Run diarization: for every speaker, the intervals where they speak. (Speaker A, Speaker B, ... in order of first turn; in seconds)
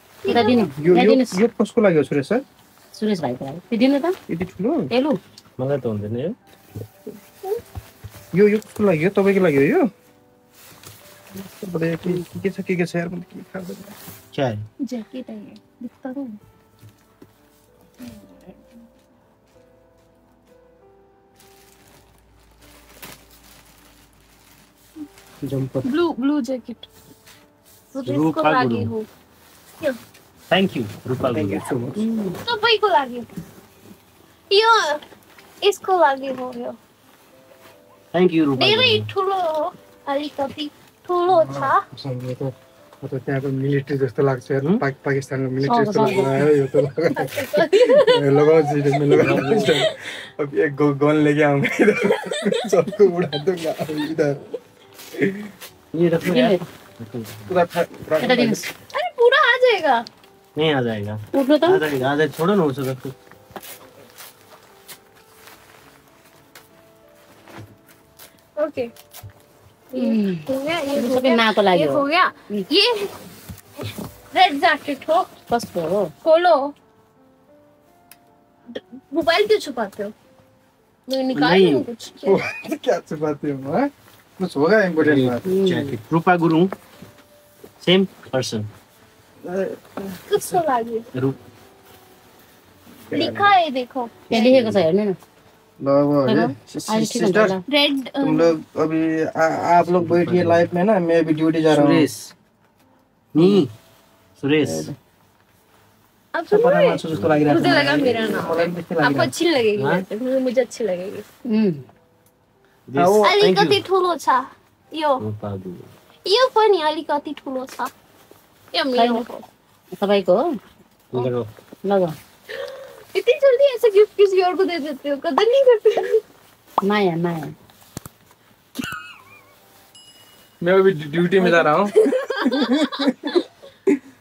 Speaker A: 0.2-0.7, 14.8-16.4, 18.0-18.6, 25.9-26.9, 27.9-29.1, 32.4-33.3, 34.5-35.0, 35.6-36.8, 38.6-41.8, 47.1-49.8, 52.2-52.6, 58.9-60.0, 68.6-68.9, 69.9-73.1, 74.3-75.3, 76.2-76.7, 78.7-80.1, 81.1-82.4, 90.3-91.1, 93.1-94.5, 97.7-98.5, 106.3-111.2, 113.2-115.2, 116.2-117.9, 118.7-119.5, 122.6-126.2, 132.0-133.3
Speaker B: 0.3-1.4, 2.9-4.2, 4.9-5.2, 32.0-32.4, 45.6-46.4, 56.3-56.6, 58.2-58.7, 61.3-61.8, 70.0-72.7, 75.5-76.1, 85.5-86.0, 94.3-95.2, 96.2-97.6, 111.5-111.8, 119.0-119.2, 120.0-120.5, 121.8-122.2, 126.8-127.5
Speaker C: 0.3-2.4, 4.3-4.9, 8.3-9.9, 11.5-14.0, 31.2-32.0, 41.3-54.4, 55.2-55.5, 57.5-58.6, 82.2-85.5, 89.5-90.4, 93.1-93.5, 95.8-97.6, 98.2-102.1, 103.4-103.7, 104.6-104.9, 106.5-109.3, 113.0-113.3, 130.6-133.1
Speaker D: 5.6-6.4, 14.3-14.6, 25.4-25.9, 28.0-28.9, 30.5-31.7, 38.1-39.1, 49.2-49.9, 55.9-57.5, 60.5-63.1, 81.3-81.8, 85.0-86.7, 87.8-88.7, 91.1-91.4, 94.3-94.8, 99.8-100.7, 101.7-102.3, 103.3-103.7, 104.4-104.9, 107.1-107.6, 109.8-110.0, 112.9-113.8, 115.2-115.9, 121.1-121.5